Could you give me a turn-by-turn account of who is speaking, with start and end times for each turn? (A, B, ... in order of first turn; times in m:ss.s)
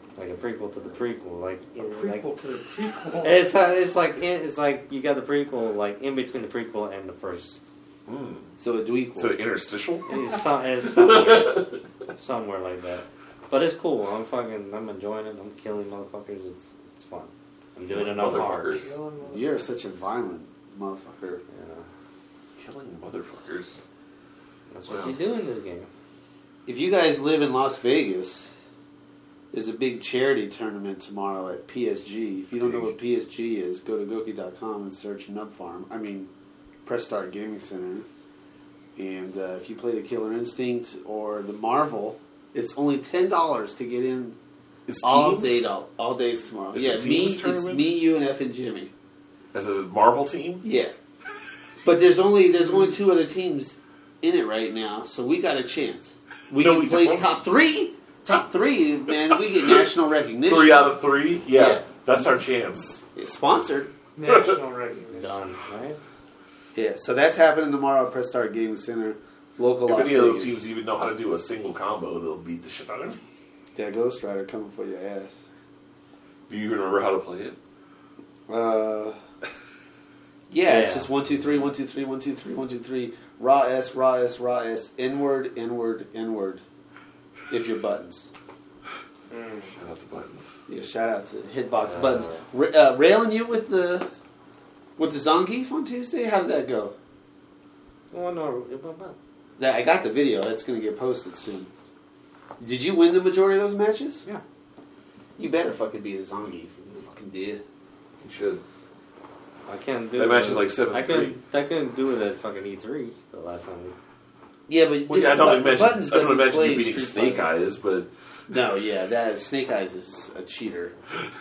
0:00.2-0:02.3 A
0:01.8-0:03.5 B
0:03.2-0:07.6 A
0:08.1-0:08.5 C
0:08.6-0:09.4 D
0:09.2-0:10.1 C
0:10.1-0:18.9 A
0:10.8-0:11.8 C
0:17.9-0:19.0 C
0:18.4-0:19.6 B
0:19.2-0:21.4 D
0:21.5-0:21.9 A
0:22.6-0:23.8 C
0:24.7-0:25.9 A
0:24.9-0:25.2 C
0:26.7-0:28.5 D
0:29.5-0:36.3 D
0:32.6-0:32.9 C
0:36.8-0:38.1 D
0:39.0-0:44.4 D
0:44.9-0:45.7 C
0:45.0-0:48.9 D
0:46.7-0:47.9 C
0:49.5-0:50.6 C
0:50.6-0:50.9 D
0:51.8-1:01.0 D
0:56.6-0:57.4 C
1:00.5-1:03.0 C
1:01.5-1:01.9 D
1:03.2-1:03.9 D
1:04.2-1:05.3 B
1:04.3-1:04.6 C
1:05.2-1:06.0 A
1:06.7-1:10.6 D
1:09.9-1:13.2 C
1:13.8-1:15.4 D
1:16.5-1:17.6 C
1:18.5-1:19.2 D
1:20.5-1:26.6 D
1:20.6-1:21.1 A
1:27.5-1:28.3 D
1:29.3-1:29.7 B
1:29.7-1:30.6 C
1:30.7-1:34.1 D
1:31.8-1:32.4 A
1:35.0-1:36.9 D
1:38.1-1:39.2 A
1:39.6-1:41.7 D
1:42.6-1:44.2 D
1:45.4-1:47.6 D
1:48.2-1:48.6 C
1:49.7-1:54.0 A
1:50.2-1:51.4 C
1:54.7-1:57.5 D
1:55.1-1:58.1 C
1:58.5-2:01.0 D